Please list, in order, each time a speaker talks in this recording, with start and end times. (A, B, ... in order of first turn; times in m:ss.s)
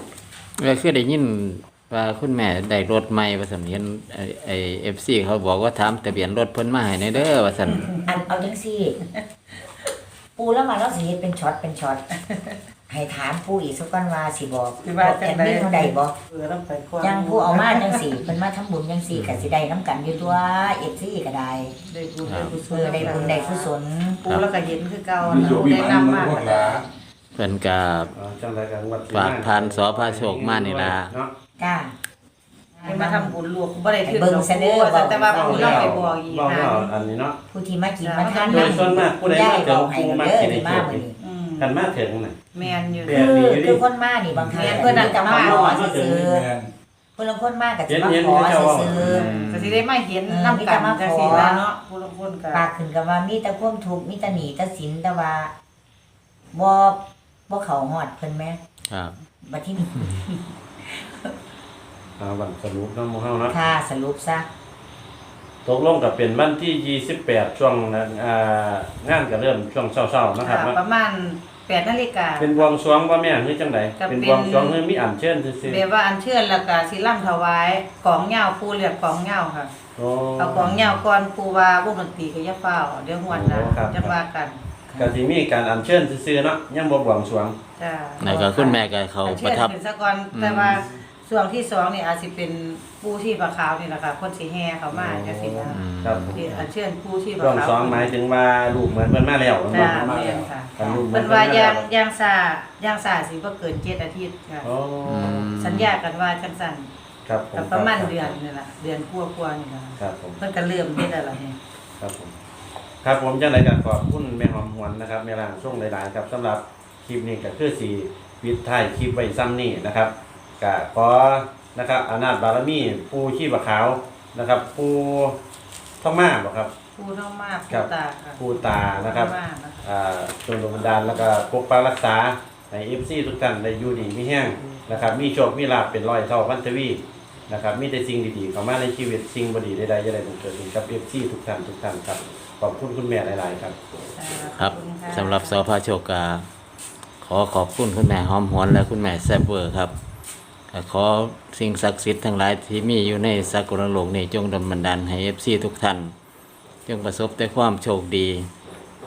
0:00.6-0:07.9 A
0:08.0-0:09.0 B
0:10.4-0:12.0 B
0:12.9-0:16.2 B
0:14.8-0:18.2 C
0:17.0-0:21.8 B
0:19.1-0:19.5 A
0:21.8-0:23.7 C
0:22.2-0:22.6 A
0:22.7-0:24.2 B
0:24.2-0:26.9 C
0:25.2-0:26.8 D
0:27.4-0:28.1 A
0:28.2-0:31.3 E
0:29.1-0:31.1 A
0:31.6-0:32.0 B
0:32.8-0:33.4 B
0:32.8-0:36.9 C
0:34.0-0:36.0 B
0:35.3-0:37.4 E
0:37.5-0:41.2 B
0:38.0-0:39.0 C
0:38.5-0:41.1 E
0:41.2-0:41.7 C
0:41.6-0:42.4 E
0:42.5-0:43.2 C
0:43.0-0:43.8 E
0:43.1-0:46.5 B
0:44.3-0:45.2 D
0:44.5-0:45.7 C
0:44.6-0:46.3 E
0:46.2-0:46.7 D
0:47.2-0:49.3 B
0:47.9-0:49.2 E
0:49.0-0:49.8 A
0:49.1-0:52.6 C
0:50.3-0:51.6 B
0:52.5-0:55.5 B
0:56.5-0:58.6 B
0:58.9-0:59.2 A
0:59.4-1:00.3 B
1:00.8-1:01.3 B
1:02.2-1:03.6 E
1:03.5-1:04.5 B
1:05.6-1:10.8 E
1:10.4-1:12.7 C
1:12.4-1:15.8 E
1:14.0-1:14.8 C
1:15.6-1:19.7 C
1:20.0-1:20.8 E
1:20.4-1:24.6 C
1:20.6-1:20.9 A
1:23.3-1:24.2 E
1:24.9-1:25.2 B
1:25.0-1:27.6 E
1:27.8-1:35.8 C
1:28.2-1:29.8 A
1:28.3-1:28.6 B
1:30.3-1:30.9 A
1:34.9-1:36.4 E
1:35.7-1:36.7 A
1:36.3-1:38.1 C
1:37.4-1:41.9 E
1:39.7-1:44.7 C
1:44.6-1:45.4 E
1:45.0-1:45.9 A
1:45.5-1:46.9 C
1:47.3-1:48.4 E
1:47.5-1:51.6 C
1:50.0-1:50.4 E
1:52.0-1:52.3 E
1:53.0-2:05.4 E
2:06.0-2:06.7 E
2:07.0-2:09.9 C
2:07.7-2:09.3 E
2:09.8-2:23.8 E
2:14.6-2:15.1 C
2:24.2-2:25.6 C
2:24.6-2:26.5 A
2:27.2-2:29.9 A
2:30.7-2:36.1 A
2:36.9-2:38.5 A